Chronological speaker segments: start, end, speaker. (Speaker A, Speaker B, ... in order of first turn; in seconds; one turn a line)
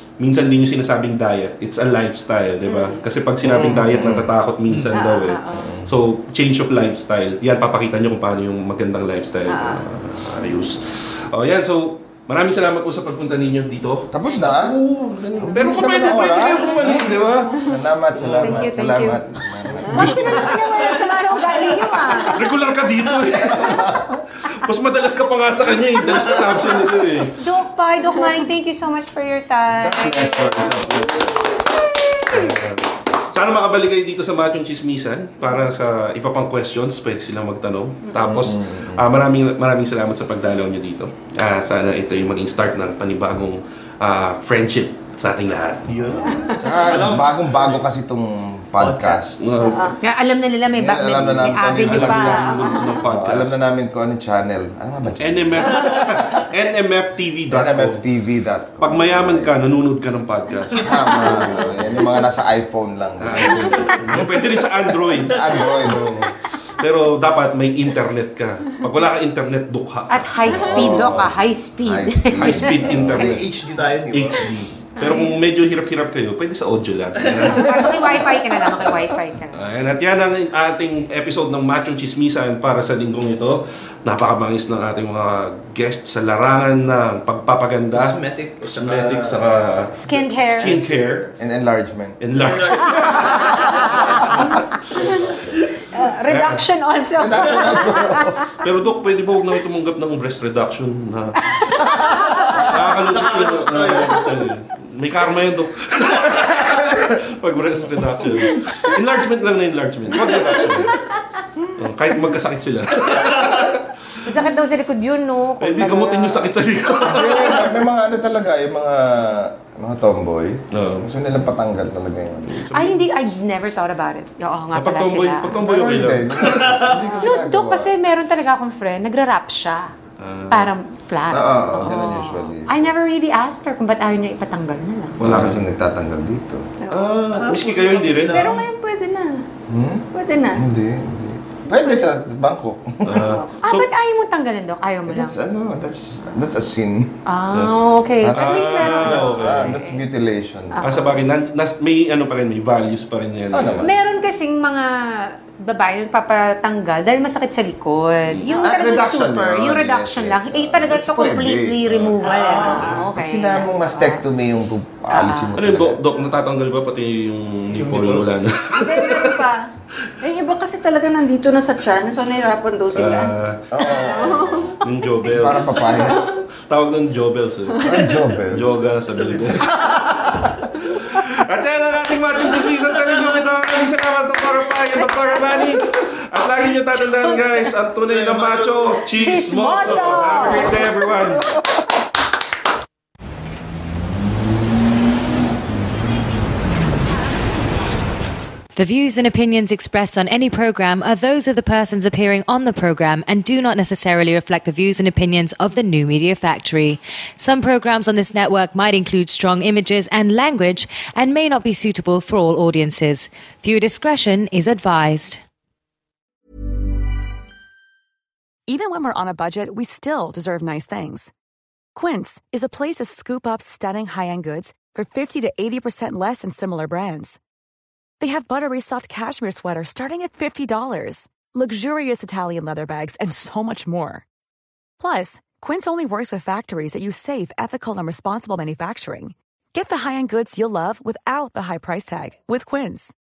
Speaker A: 0.2-17.6
Speaker B: 2.6-3.0
Speaker C: 3.4-4.3
Speaker D: 4.7-4.9
Speaker B: 4.9-5.3
Speaker E: 5.2-5.7
Speaker C: 5.5-5.9
Speaker B: 9.5-9.8
Speaker C: 14.1-14.8
Speaker C: 15.4-20.6
Speaker E: 15.5-17.1
Speaker A: 18.1-18.7
Speaker E: 18.4-19.2
Speaker E: 19.9-22.4
Speaker A: 19.9-21.1
Speaker A: 22.2-27.4
Speaker C: 23.3-24.2
Speaker E: 27.3-32.5
Speaker C: 29.7-31.6
Speaker A: 32.3-46.4
Speaker B: 38.1-38.5
Speaker C: 38.2-39.0
Speaker C: 46.0-49.4
Speaker B: 46.2-46.6
Speaker D: 46.9-47.8
Speaker D: 48.8-49.6
Speaker A: 49.4-49.9
Speaker B: 49.6-50.0
Speaker E: 50.0-52.5
Speaker C: 50.7-55.9
Speaker A: 51.4-53.5
Speaker B: 52.3-53.0
Speaker A: 55.2-58.0
Speaker D: 55.7-56.2
Speaker C: 57.5-59.5
Speaker A: 58.8-61.4
Speaker C: 60.7-64.2
Speaker A: 63.2-71.1
Speaker D: 64.1-66.2
Speaker C: 65.2-66.2
Speaker E: 70.1-72.7
Speaker C: 70.5-71.3
Speaker C: 71.8-73.4
Speaker A: 72.4-73.5
Speaker D: 73.1-74.5
Speaker A: 74.1-78.0
Speaker E: 75.0-75.3
Speaker D: 77.2-77.9
Speaker E: 77.5-79.6
Speaker A: 79.5-91.3
Speaker D: 87.9-89.4
Speaker E: 89.9-90.7
Speaker C: 91.4-92.2
Speaker A: 92.2-94.4
Speaker D: 92.3-95.8
Speaker E: 92.9-94.4
Speaker E: 95.9-98.4
Speaker A: 96.3-96.6
Speaker C: 97.2-98.5
Speaker A: 98.6-101.5
Speaker E: 101.6-102.6
Speaker C: 102.0-102.4
Speaker A: 102.6-111.0
Speaker D: 102.7-104.3
Speaker A: 111.8-113.9
Speaker D: 113.1-113.6
Speaker E: 114.2-116.5
Speaker A: 115.6-117.7
Speaker C: 117.0-122.7
Speaker A: 120.7-121.1
Speaker A: 122.5-123.1
Speaker E: 122.7-125.6
Speaker A: 124.7-127.0
Speaker C: 125.5-127.9
Speaker D: 126.5-126.9
Speaker E: 127.2-129.9
Speaker A: 130.2-130.7
Speaker E: 130.5-135.2
Speaker C: 131.3-132.9
Speaker A: 135.2-135.6
Speaker C: 135.2-136.6
Speaker B: 136.8-137.2
Speaker A: 136.9-138.6
Speaker D: 137.3-138.6
Speaker B: 138.3-139.4
Speaker C: 139.7-140.0
Speaker B: 140.1-140.6
Speaker C: 140.6-143.3
Speaker A: 143.0-143.9
Speaker B: 143.1-143.6
Speaker E: 143.6-145.4
Speaker C: 145.1-147.2
Speaker E: 147.2-150.0
Speaker C: 148.2-151.2
Speaker A: 148.3-149.7
Speaker E: 150.7-151.1
Speaker A: 150.8-153.9
Speaker C: 153.5-153.9
Speaker E: 153.8-164.2
Speaker C: 158.5-161.8
Speaker A: 161.8-162.2
Speaker D: 162.2-163.1
Speaker C: 162.9-166.1
Speaker E: 165.1-165.5
Speaker A: 165.6-169.4
Speaker D: 167.7-168.4
Speaker B: 168.7-169.7
Speaker B: 170.2-174.8
Speaker A: 172.9-173.6
Speaker C: 173.7-174.7
Speaker A: 174.8-175.8
Speaker C: 175.3-176.3
Speaker B: 176.0-176.3
Speaker A: 176.7-177.9
Speaker B: 177.7-178.1
Speaker C: 177.8-178.8
Speaker A: 178.5-191.4
Speaker D: 179.1-179.5
Speaker C: 179.8-180.6
Speaker E: 187.1-187.4
Speaker D: 188.1-190.7
Speaker E: 189.2-190.7
Speaker F: 198.7-215.4
Speaker G: 218.7-221.3
Speaker G: 221.9-227.4
Speaker G: 228.2-234.2
Speaker G: 235.0-243.1